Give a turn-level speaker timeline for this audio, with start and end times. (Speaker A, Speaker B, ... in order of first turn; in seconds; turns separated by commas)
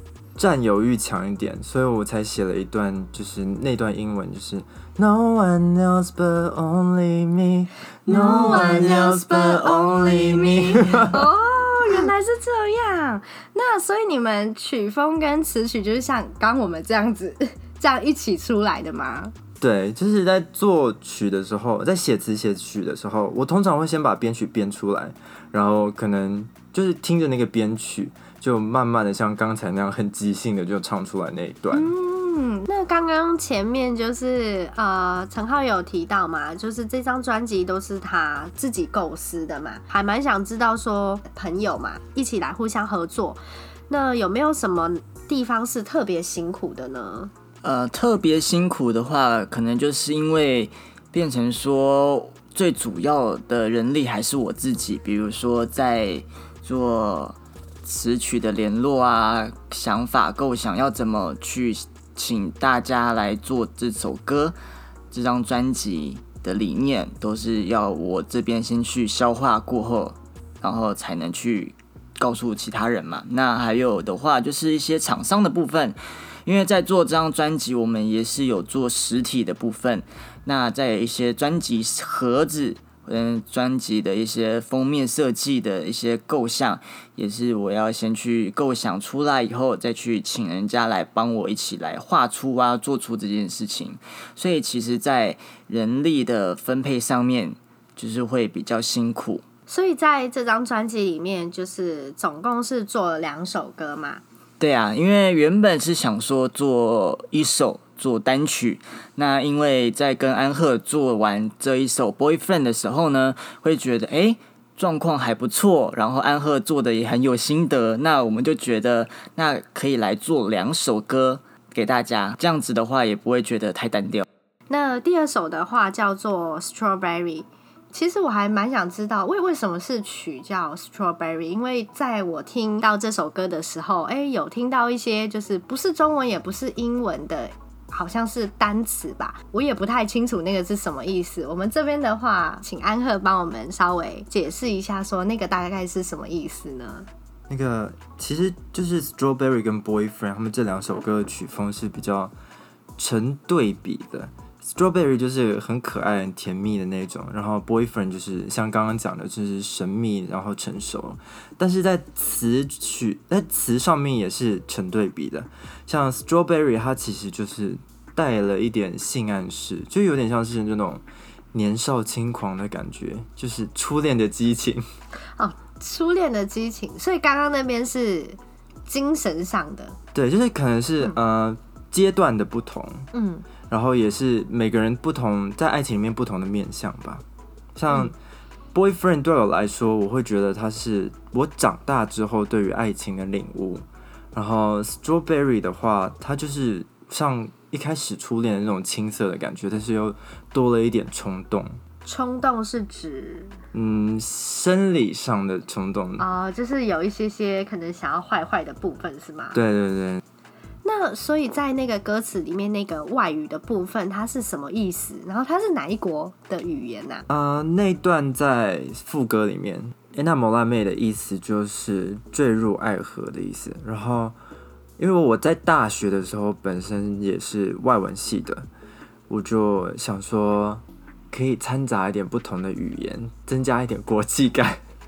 Speaker A: 0.4-9.6, Speaker B: 8.1-19.3, Speaker C: 9.9-10.2, Speaker A: 10.6-11.3, Speaker A: 19.6-31.9, Speaker B: 31.7-47.3, Speaker C: 47.6-64.6, Speaker C: 65.1-99.4, Speaker B: 99.7-104.2, Speaker C: 104.6-124.2, Speaker B: 124.7-147.1, Speaker A: 147.5-152.3, Speaker A: 153.0-174.8, Speaker B: 175.4-180.0, Speaker A: 180.1-183.1, Speaker B: 183.1-183.5, Speaker A: 183.7-188.1, Speaker A: 188.7-201.8, Speaker B: 202.0-203.6, Speaker A: 203.7-206.2, Speaker B: 206.2-209.6, Speaker A: 209.5-210.2, Speaker B: 210.8-217.2, Speaker A: 217.3-224.4, Speaker A: 225.0-228.7, Speaker A: 229.3-234.8